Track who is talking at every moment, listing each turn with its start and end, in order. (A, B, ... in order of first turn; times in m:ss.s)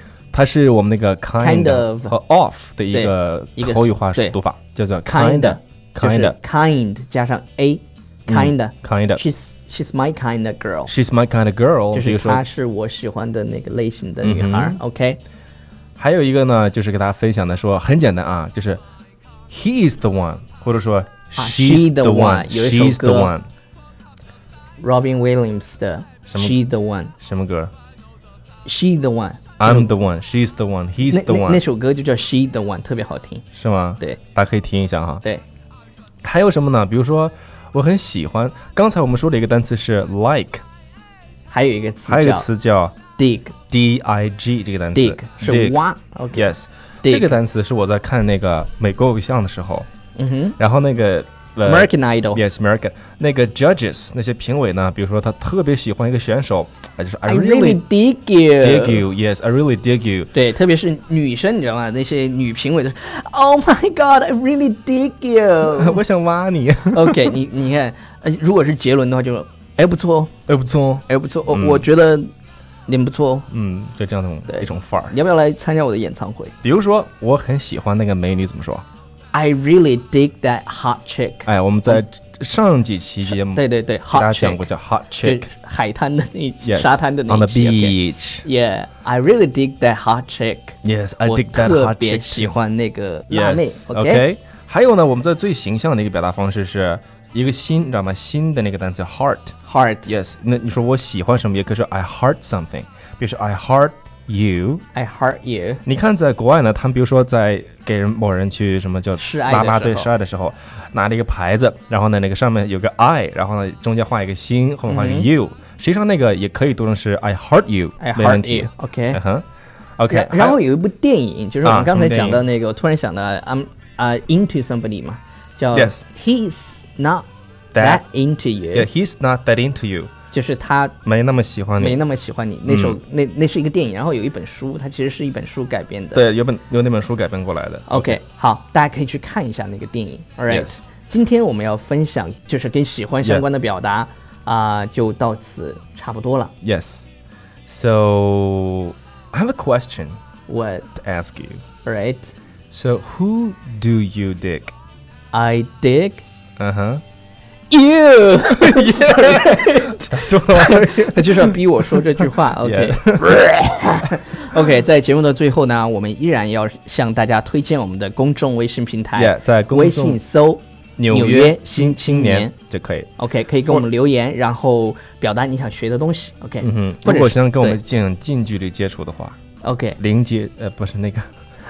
0:00.3-0:06.4 A
0:01.4-0:02.1 B
0:02.9-0:04.4 B
0:05.1-0:10.9 B
0:08.3-0:09.2 A
0:10.9-0:12.4 A
0:11.9-0:15.2 B
0:14.2-0:14.8 A
0:16.0-0:18.8 A
0:19.5-0:23.5 A
0:21.4-0:23.3 B
0:24.8-0:27.1 B
0:26.3-0:26.6 A
0:27.2-0:27.7 A
0:28.6-0:29.9 B
0:29.6-0:31.6 A
0:31.1-0:33.4 B
0:33.5-0:35.2 A
0:36.2-0:40.6 A
0:41.5-0:42.5 B
0:42.1-0:43.0 A
0:43.2-0:43.5 B
0:43.7-0:45.8 A
0:44.9-0:46.5 B
0:46.3-0:49.9 A
0:47.0-0:47.4 B
0:50.2-0:50.6 B
0:50.6-0:57.8 A
0:51.7-0:52.4 B
0:57.3-0:59.0 B
0:58.6-1:00.3 A
1:00.3-1:06.0 B
1:05.7-1:07.4 A
1:06.9-1:10.3 B
1:10.5-1:11.9 A
1:11.1-1:12.3 B
1:12.9-1:13.5 B
1:13.5-1:15.1 A
1:14.5-1:16.5 B
1:16.6-1:18.8 A
1:19.3-1:22.0 B
1:21.5-1:25.5 A
1:23.2-1:24.7 B
1:25.2-1:34.2 B
1:26.6-1:28.5 A
1:30.8-1:32.6 A
1:33.3-1:39.5 A
1:39.7-1:40.1 B
1:40.1-1:44.8 A
1:45.0-1:45.8 B
1:45.8-1:59.4 A
1:49.2-1:50.1 B
1:54.9-1:55.3 B
1:58.0-1:59.2 B
2:00.0-2:00.6 A
2:00.1-2:08.9 B
2:01.6-2:02.4 A
2:05.7-2:06.0 A
2:07.7-2:08.0 A
2:08.7-2:10.1 A
2:10.3-2:11.0 B
2:11.0-2:12.0 A
2:11.8-2:16.2 B
2:12.7-2:13.0 A
2:16.2-2:18.2 A
2:17.9-2:26.5 B
2:20.5-2:20.8 A
2:26.6-2:27.1 A
2:27.7-2:30.2 A
2:30.5-2:30.9 B
2:31.0-2:31.6 A
2:31.8-2:32.3 B
2:32.7-2:34.7 A
2:35.3-2:36.2 B
2:36.6-2:37.0 A
2:37.7-2:52.5 B
2:38.5-2:43.5 A
2:49.2-2:50.2 A
2:51.0-2:53.1 A
2:53.2-2:57.8 B
2:56.6-2:59.4 A
2:59.6-3:00.0 B
3:00.0-3:01.3 A